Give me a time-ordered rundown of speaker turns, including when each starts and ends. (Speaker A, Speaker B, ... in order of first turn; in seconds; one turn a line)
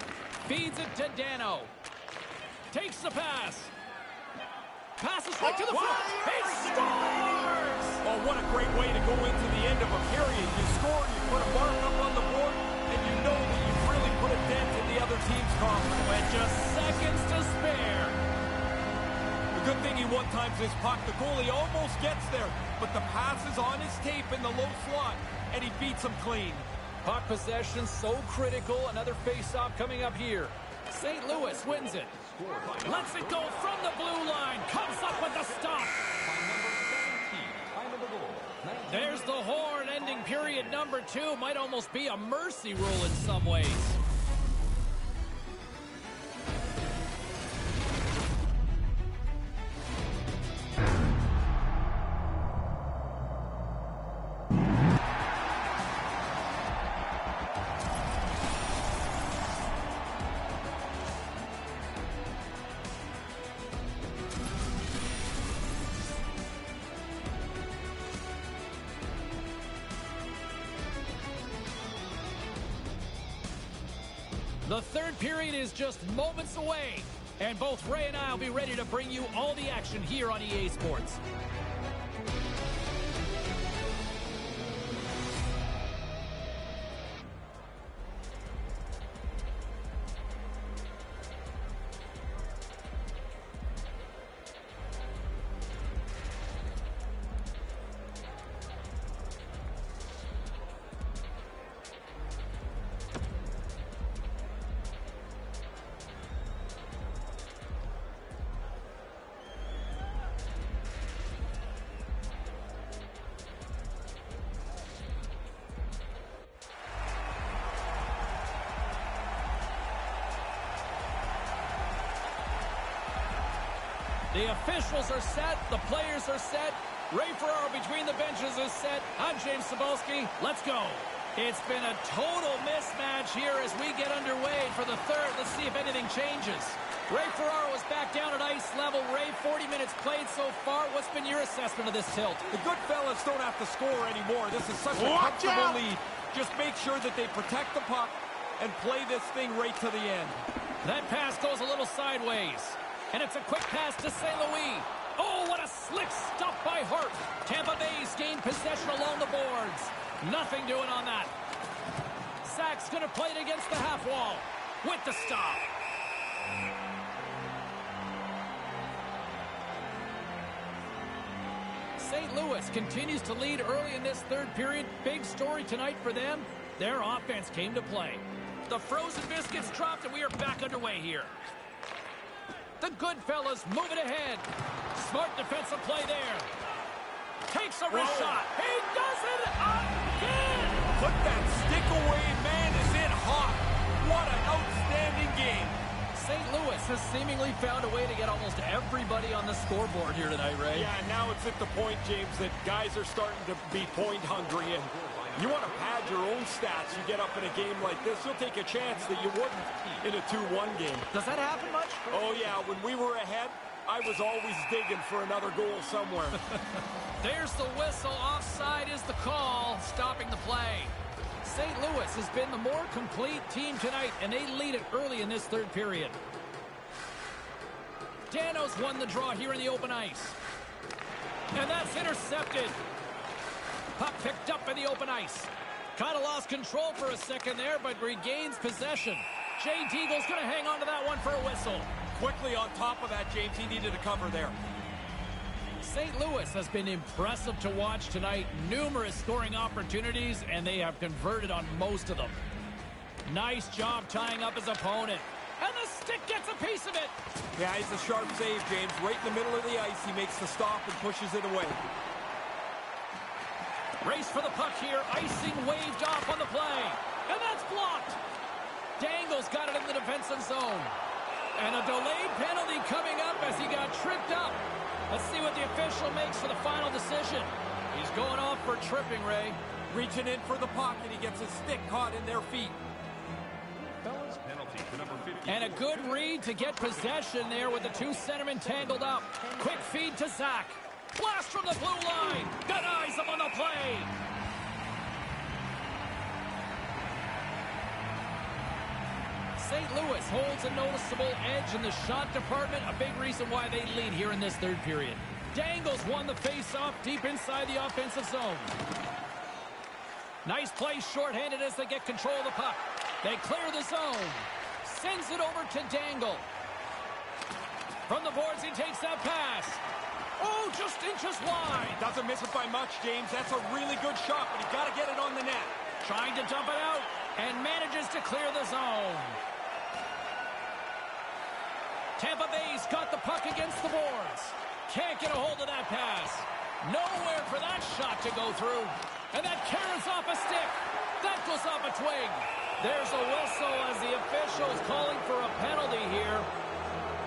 Speaker A: 0.4-1.7
Speaker A: 2.7-3.7
Speaker A: 5.0-8.0
Speaker B: 5.7-7.0
Speaker B: 8.0-16.1
Speaker A: 16.0-18.2
Speaker B: 19.5-26.7
Speaker A: 27.0-32.2
Speaker C: 32.2-33.8
Speaker A: 32.8-36.0
Speaker C: 36.0-40.7
Speaker A: 38.9-44.0
Speaker A: 74.7-81.2
Speaker A: 124.3-142.5
Speaker B: 142.5-150.3
Speaker A: 150.8-161.3
Speaker A: 162.4-165.7
Speaker A: 172.0-181.3
Speaker A: 182.8-186.5
Speaker A: 187.5-190.9
Speaker B: 187.9-188.4
Speaker B: 190.9-195.8
Speaker A: 196.1-200.9
Speaker B: 200.7-211.1
Speaker C: 204.3-210.1
Speaker A: 211.1-212.0
Speaker C: 212.1-212.6
Speaker B: 212.1-216.4
Speaker A: 217.2-226.2
Speaker A: 228.3-230.4
Speaker A: 231.5-232.8
Speaker A: 233.9-241.9
Speaker B: 242.2-244.6
Speaker A: 245.8-252.4
Speaker A: 253.2-257.1
Speaker B: 257.6-261.8
Speaker A: 264.0-268.2
Speaker A: 269.0-270.9
Speaker A: 271.6-279.6
Speaker B: 279.9-282.8
Speaker C: 283.9-286.2
Speaker A: 285.5-294.1
Speaker A: 299.6-308.7
Speaker A: 310.4-316.4
Speaker A: 318.1-319.8
Speaker A: 320.4-322.0
Speaker B: 322.0-325.7
Speaker A: 326.0-329.4
Speaker A: 332.2-346.5